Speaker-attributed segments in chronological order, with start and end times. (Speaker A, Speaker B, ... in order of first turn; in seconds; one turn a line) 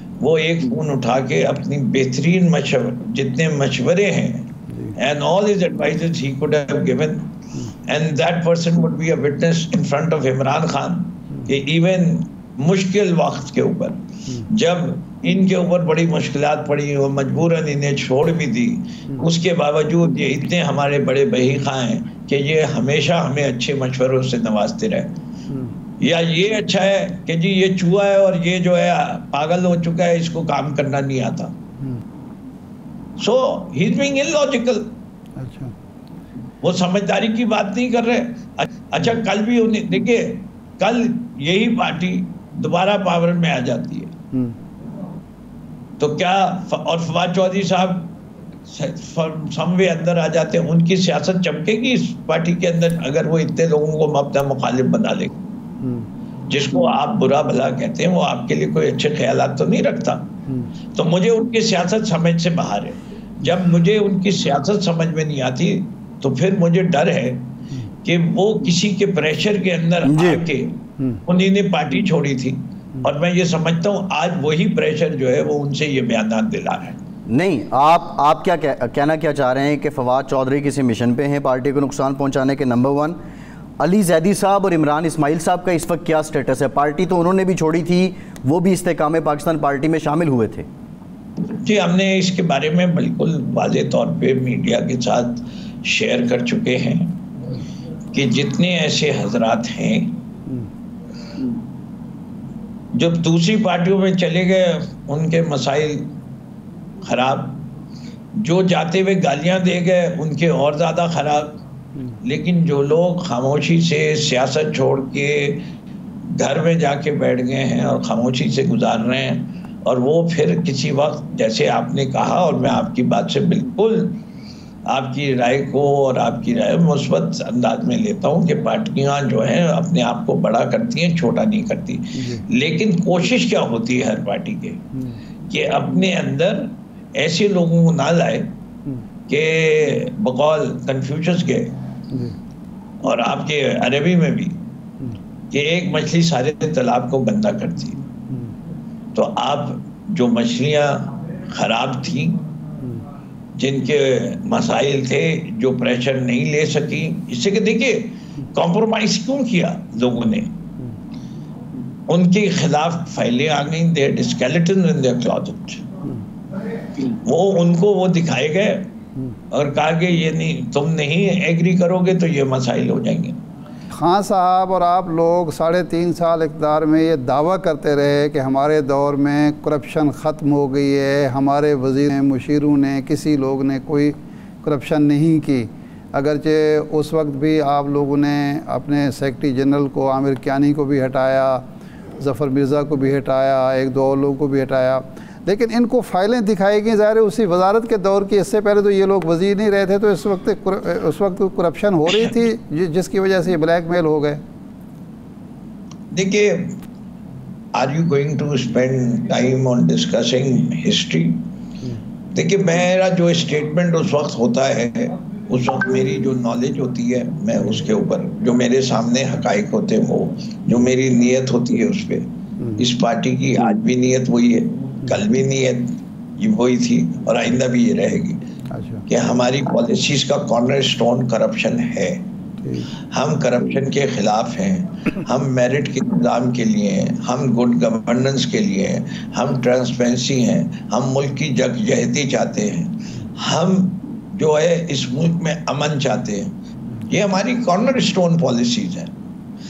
Speaker A: 0.2-7.3
Speaker A: 7.8-25.1
Speaker B: 25.5-25.8
Speaker A: 26.0-31.5
Speaker A: 33.2-35.0
Speaker B: 35.4-35.7
Speaker A: 36.6-44.1
Speaker A: 46.0-48.1
Speaker A: 48.7-55.3
Speaker B: 55.8-56.1
Speaker A: 56.5-60.3
Speaker A: 60.9-67.5
Speaker A: 68.0-77.0
Speaker C: 70.0-70.4
Speaker C: 77.3-83.2
Speaker C: 83.8-90.7
Speaker A: 91.6-97.2
Speaker A: 98.1-100.2
Speaker A: 102.9-106.1
Speaker A: 107.0-107.6
Speaker A: 108.4-111.6
Speaker A: 112.2-115.7
Speaker A: 116.4-124.2
Speaker A: 124.9-134.8
Speaker B: 132.2-132.4
Speaker A: 135.5-138.6
Speaker A: 139.3-141.8
Speaker B: 142.1-142.4
Speaker A: 143.0-144.6
Speaker A: 145.5-148.0
Speaker A: 149.1-152.4
Speaker A: 153.6-160.5
Speaker A: 162.1-165.8
Speaker A: 167.0-168.9
Speaker A: 169.5-173.4
Speaker B: 173.9-191.7
Speaker B: 192.2-204.4
Speaker A: 202.1-202.3
Speaker A: 206.1-206.8
Speaker A: 207.7-211.4
Speaker A: 212.3-228.4
Speaker B: 222.6-222.8
Speaker B: 228.7-229.1
Speaker A: 229.1-232.3
Speaker A: 232.8-246.5
Speaker A: 247.1-249.1